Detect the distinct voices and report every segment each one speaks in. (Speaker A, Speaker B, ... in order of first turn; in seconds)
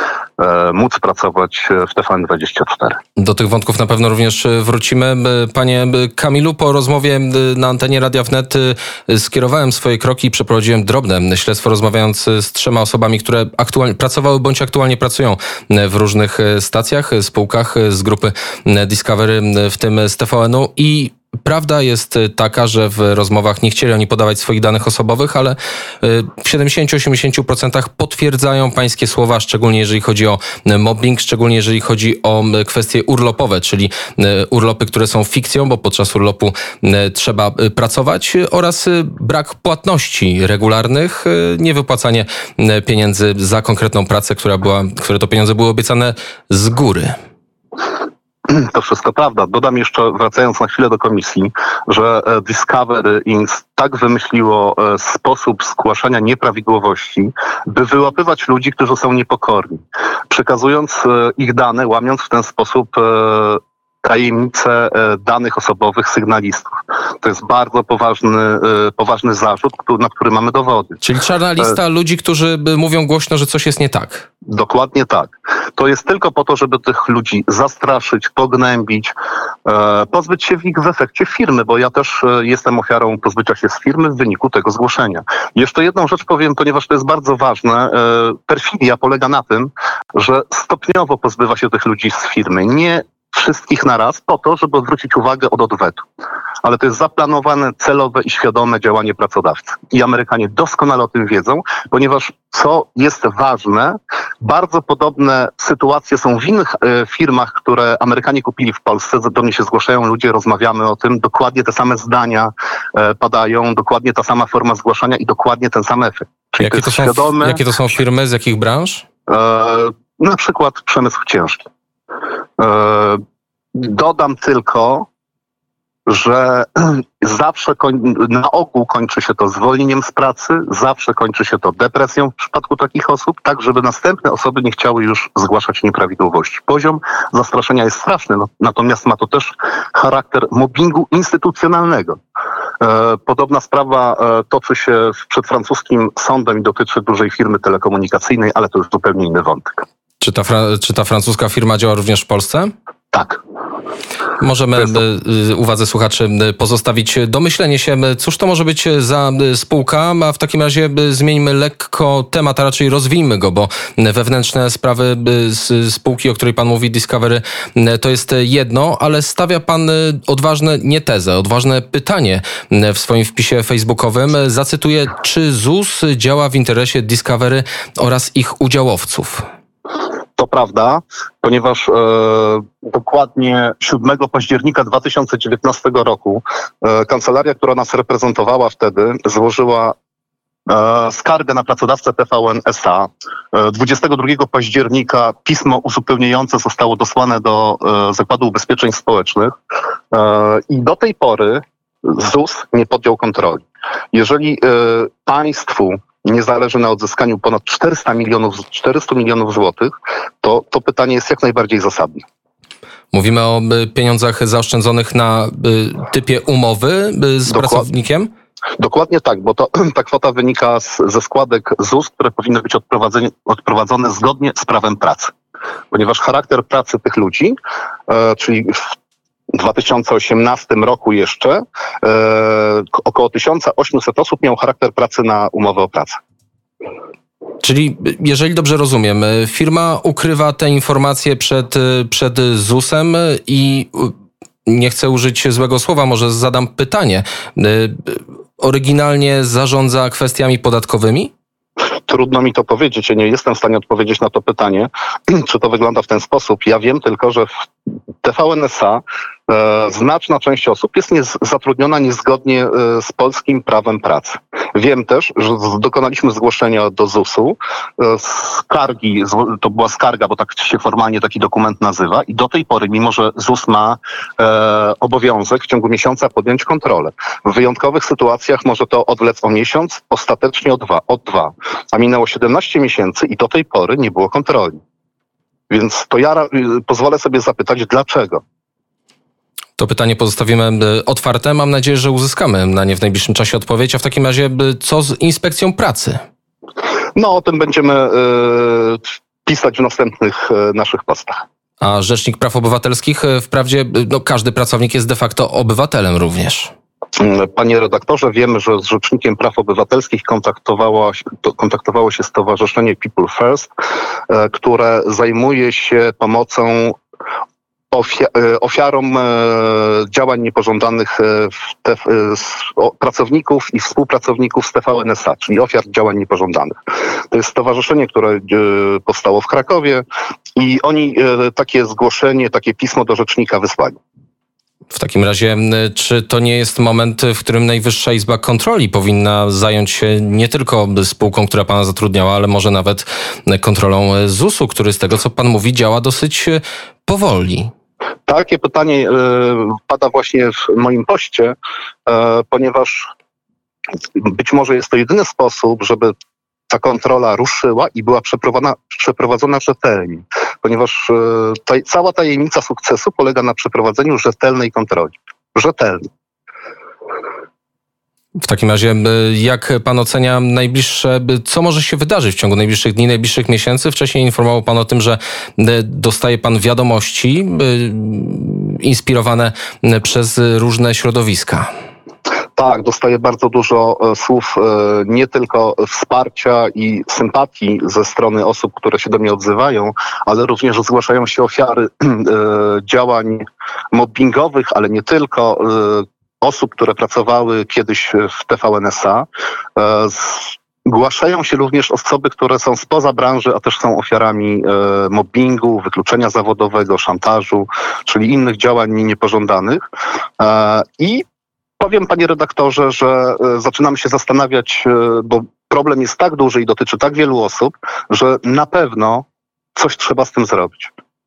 Speaker A: 0.4-3.0, 48.5-71.0, 74.5-79.1, 79.7-96.0, 96.6-117.6, 119.3-121.7, 122.6-123.2, 123.7-125.1, 126.1-142.2, 142.8-149.8, 153.1-153.4, 180.4-189.9, 190.7-199.5, 200.1-212.2, 217.5-217.9, 218.8-225.3, 225.9-227.6, 228.1-228.9, 229.5-236.2, 252.1-257.5, 258.2-284.8, 285.7-288.4, 297.2-301.4, 307.2-313.7, 314.3-317.0, 317.9-326.8, 327.3-330.0, 330.6-334.0, 348.3-351.6, 352.1-353.1, 354.1-356.1, 356.7-366.0, 382.6-409.8, 410.4-411.2, 411.8-419.2, 419.8-420.9
Speaker B: 3.2-47.1, 71.0-74.3, 116.6-119.0, 150.2-152.7, 154.4-179.4, 213.1-218.3, 237.6-244.1, 244.7-251.3, 289.8-296.2, 301.8-306.7, 334.9-347.7, 368.4-381.7